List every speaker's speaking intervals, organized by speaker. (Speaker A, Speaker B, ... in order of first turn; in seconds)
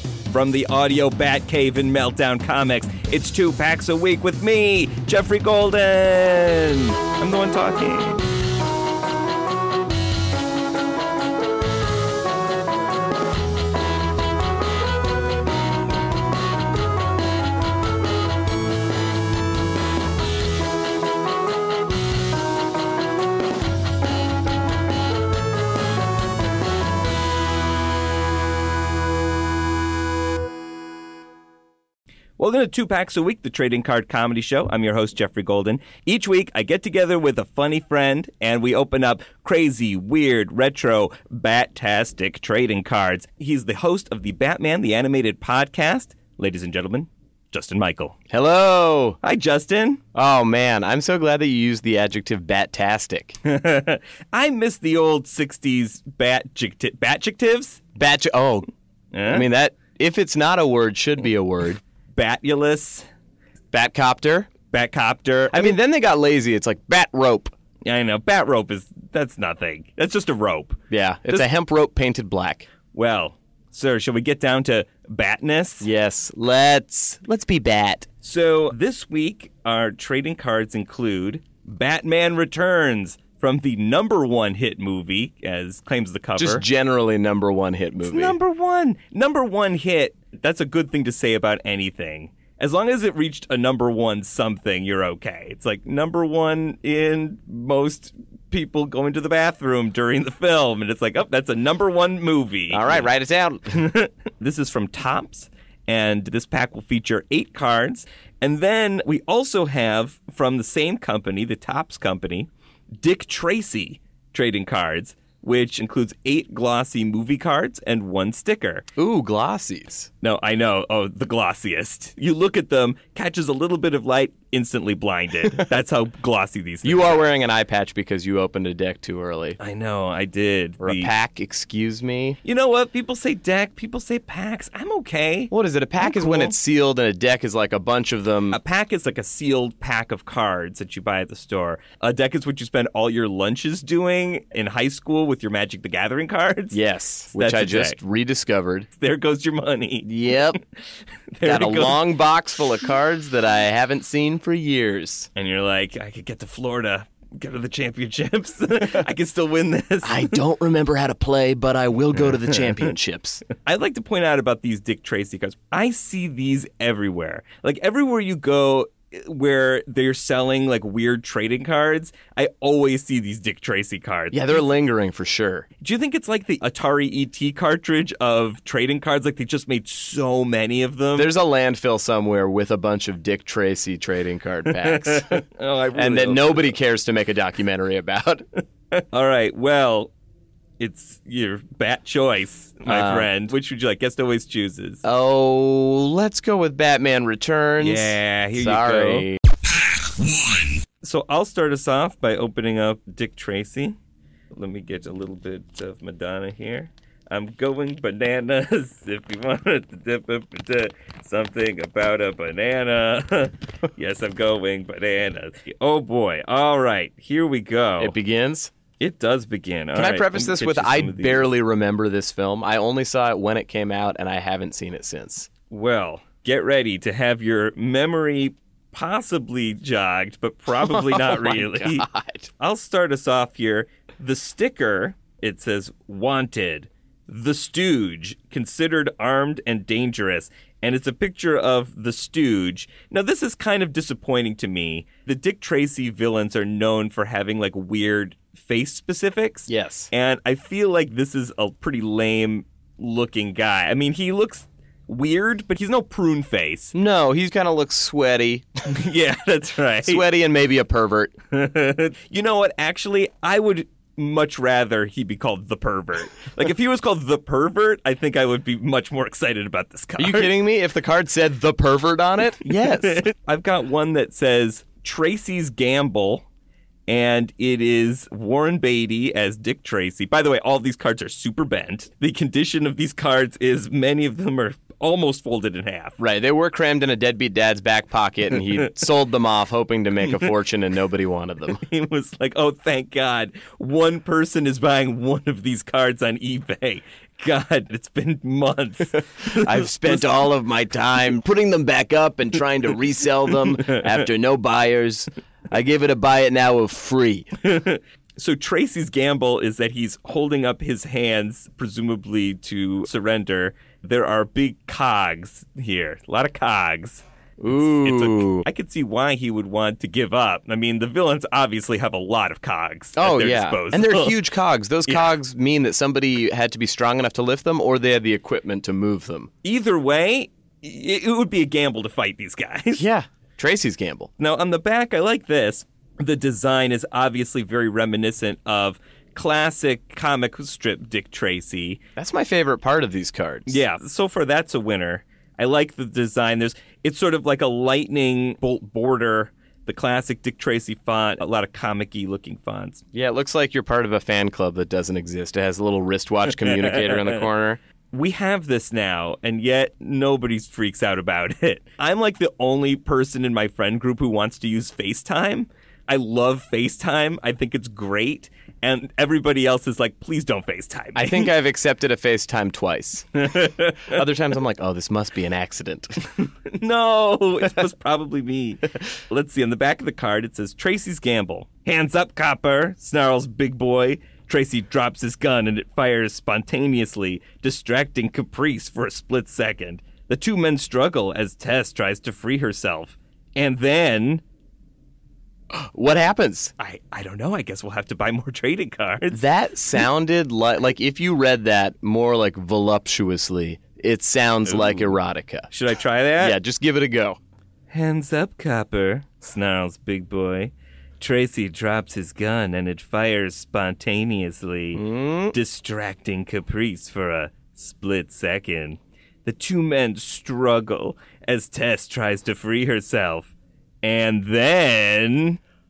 Speaker A: 0.3-8.3, 32.4-48.1, 49.2-50.0, 53.4-57.8, 59.1-59.5, 62.1-63.0, 64.7-65.8, 67.8-70.8, 72.9-75.9, 78.2-86.6, 88.0-103.1, 103.7-112.5, 113.0-118.8, 120.2-127.2, 129.6-131.1, 132.4-136.5, 138.5-146.8, 147.3-147.9, 149.0-150.6, 151.3-152.0, 155.3-160.4, 163.5-174.6, 175.8-181.3, 184.7-186.7, 188.9-190.1, 190.8-195.0, 197.8-199.3, 199.9-203.9, 204.5-218.1, 219.0-221.5, 225.7-232.1, 232.6-256.9, 258.9-260.2, 261.5-270.5, 272.9-276.4, 277.1-286.2, 291.8-300.4, 303.8-304.0, 307.6-324.4, 325.1-325.3, 329.6-333.1, 334.4-342.0, 343.7-353.0, 356.5-357.4, 358.1-371.5, 373.3-374.2, 376.3-394.4, 396.8-399.4, 404.6-405.1, 405.7-406.6, 407.9-423.5, 424.0-425.6
Speaker B: 48.3-49.2, 50.1-53.4, 58.0-58.7, 59.3-61.8, 63.7-64.5, 65.5-67.5, 70.9-72.7, 75.8-78.1, 86.4-88.3, 102.7-103.8, 119.0-120.1, 126.8-129.6, 130.8-132.4, 135.5-138.6, 146.7-148.9, 150.0-150.6, 151.4-155.3, 160.0-163.4, 174.3-175.7, 181.1-185.4, 185.9-188.4, 192.8-193.3, 195.0-199.4, 218.0-218.7, 219.9-225.5, 230.7-232.5, 249.7-250.1, 256.9-258.7, 260.0-261.3, 270.2-273.2, 286.2-291.8, 299.4-307.5, 317.6-318.6, 323.1-329.5, 333.0-334.3, 342.1-343.8, 353.1-357.8, 371.1-376.2, 395.7-396.7, 399.3-405.7, 406.4-407.4, 414.9-415.6